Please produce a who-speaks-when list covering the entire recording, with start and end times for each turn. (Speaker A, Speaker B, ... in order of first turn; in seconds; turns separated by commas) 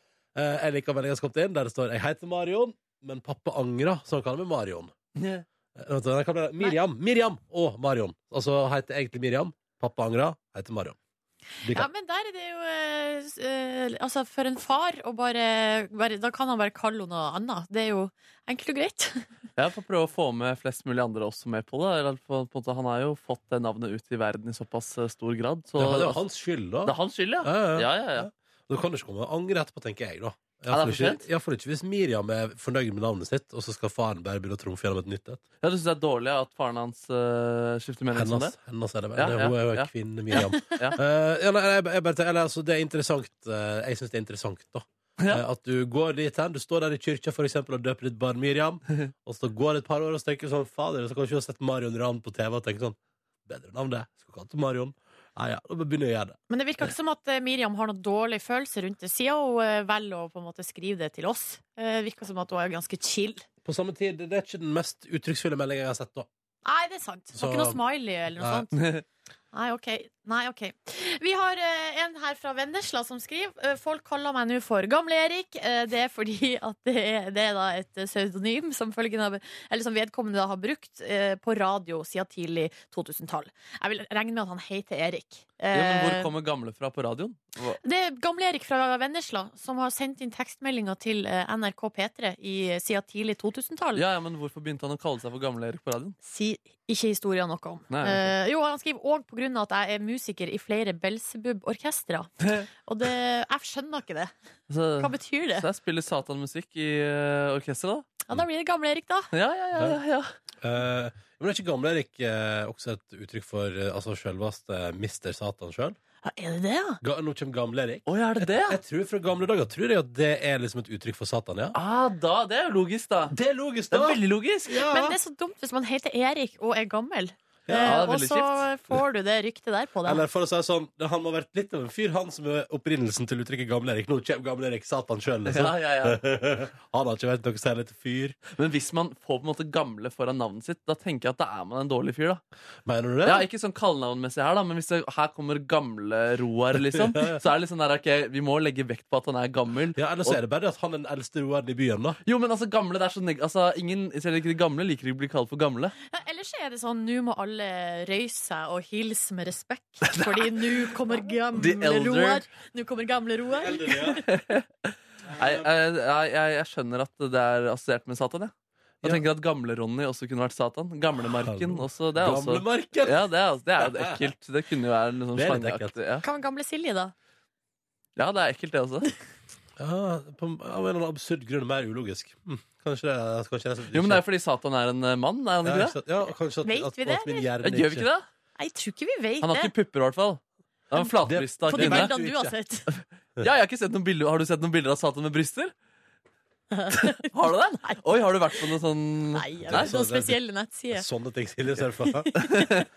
Speaker A: 0.3-5.0, Speaker B: 5.2-5.4, Speaker A: 5.8-11.0, Speaker A: 11.6-11.9, Speaker C: 11.7-19.3, Speaker B: 19.6-26.2, Speaker A: 25.8-35.4, Speaker B: 26.9-28.3, Speaker B: 30.7-31.2, Speaker B: 35.6-38.5, Speaker A: 38.1-56.4, Speaker B: 39.2-39.9, Speaker C: 40.3-40.6, Speaker B: 40.7-41.0, Speaker C: 56.5-63.5, Speaker A: 63.6-66.3, Speaker C: 66.7-68.8, Speaker A: 67.3-67.8, Speaker A: 68.4-68.7, Speaker B: 68.8-69.0, Speaker C: 69.5-86.3, Speaker B: 85.7-87.8, Speaker C: 87.8-94.0, Speaker B: 94.0-96.2, Speaker C: 96.2-102.3, Speaker B: 97.9-98.3, Speaker C: 102.8-104.3, Speaker B: 104.7-108.1, Speaker C: 105.0-105.7, Speaker C: 108.3-109.3, Speaker B: 109.3-110.3, Speaker A: 110.6-116.0, Speaker C: 116.2-117.0, Speaker A: 117.0-121.8, Speaker B: 118.1-118.8, Speaker B: 121.7-123.3, Speaker A: 123.3-125.2, Speaker B: 123.9-124.8, Speaker C: 124.9-130.2, Speaker A: 127.7-128.0, Speaker B: 127.8-128.7, Speaker A: 130.0-138.4, Speaker B: 135.5-136.2, Speaker B: 138.6-142.4, Speaker A: 142.8-143.5, Speaker B: 143.2-150.4, Speaker A: 146.9-147.4, Speaker A: 150.0-152.2, Speaker B: 152.2-155.9, Speaker C: 156.1-164.2, Speaker B: 160.1-160.6, Speaker B: 161.6-162.4, Speaker A: 163.6-164.2, Speaker B: 164.2-176.2, Speaker A: 165.3-165.7, Speaker A: 171.3-173.3, Speaker A: 173.8-174.2, Speaker A: 175.3-176.0, Speaker C: 176.2-177.1, Speaker B: 178.2-179.1, Speaker A: 179.8-184.2, Speaker B: 183.9-186.0, Speaker A: 185.6-188.1, Speaker C: 186.6-187.5, Speaker B: 187.6-188.3, Speaker C: 188.6-189.7, Speaker B: 189.4-192.1, Speaker A: 191.2-192.5, Speaker C: 191.7-192.9, Speaker B: 193.0-195.7, Speaker C: 196.7-197.3, Speaker B: 196.9-199.9, Speaker C: 199.3-201.1, Speaker A: 199.7-200.4, Speaker A: 200.9-202.3, Speaker C: 202.1-202.7, Speaker B: 202.4-202.8